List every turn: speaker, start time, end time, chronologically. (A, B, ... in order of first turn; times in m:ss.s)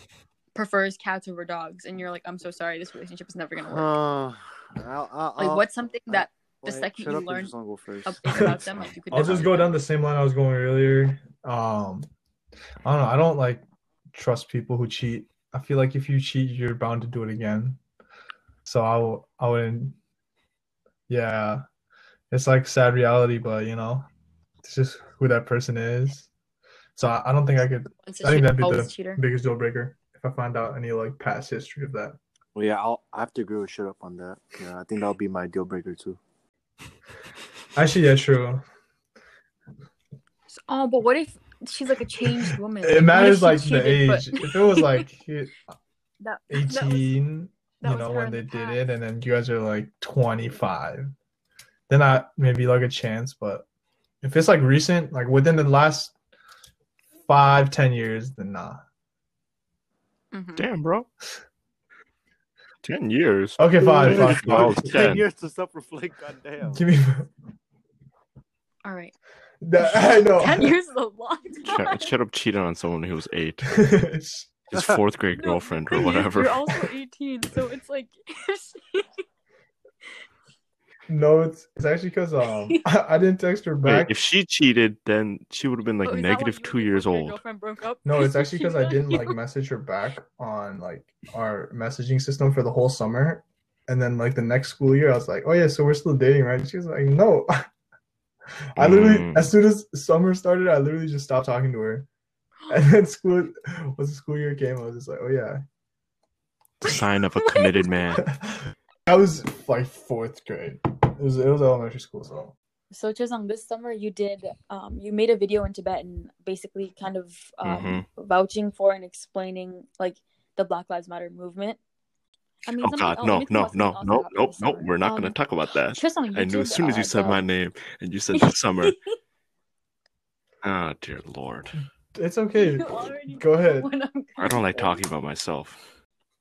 0:00.5-0:03.9 A
0:03.7-0:08.7 B
0:05.4-0:07.5 A
0:08.0-0:09.7 A
0:08.3-0:12.1 C
0:12.8-0:17.8 C
0:18.6-0:20.0 C
0:21.1-0:21.6 C
0:22.3-0:24.1 C
0:24.6-0:26.3 C
0:27.0-0:32.2 C
0:27.9-0:29.2 A
0:32.5-0:36.2 B
0:37.7-0:38.6 C
0:40.5-0:45.1 A
0:42.8-0:45.6 C
0:46.2-0:47.1 A
0:46.5-0:51.1 C
0:47.8-0:49.0 A
0:51.9-0:53.6 C
0:54.2-0:56.1 C
0:57.3-0:58.8 C
1:00.3-1:00.7 A
1:00.6-1:01.1 D
1:02.8-1:05.2 D
1:03.6-1:04.9 C
1:03.9-1:06.8 B
1:06.7-1:07.3 C
1:08.8-1:09.1 A
1:09.6-1:10.7 C
1:09.8-1:12.1 A
1:11.7-1:13.8 D
1:13.7-1:14.5 C
1:14.7-1:16.6 D
1:14.7-1:15.0 B
1:15.4-1:19.1 A
1:21.1-1:24.1 C
1:23.8-1:27.4 D
1:26.0-1:29.4 A
1:28.0-1:37.7 C
1:38.7-1:42.0 C
1:38.8-1:39.5 D
1:42.7-1:45.6 C
1:46.8-1:48.2 D
1:46.8-1:47.9 A
1:48.2-1:52.5 C
1:52.9-2:01.8 A
1:57.6-1:58.0 D
2:02.6-2:05.4 A
2:02.8-2:09.0 D
2:05.9-2:07.4 A
2:08.3-2:09.0 A
2:10.6-2:11.8 D
2:12.1-2:13.9 C
2:12.5-2:15.0 A
2:14.4-2:15.8 D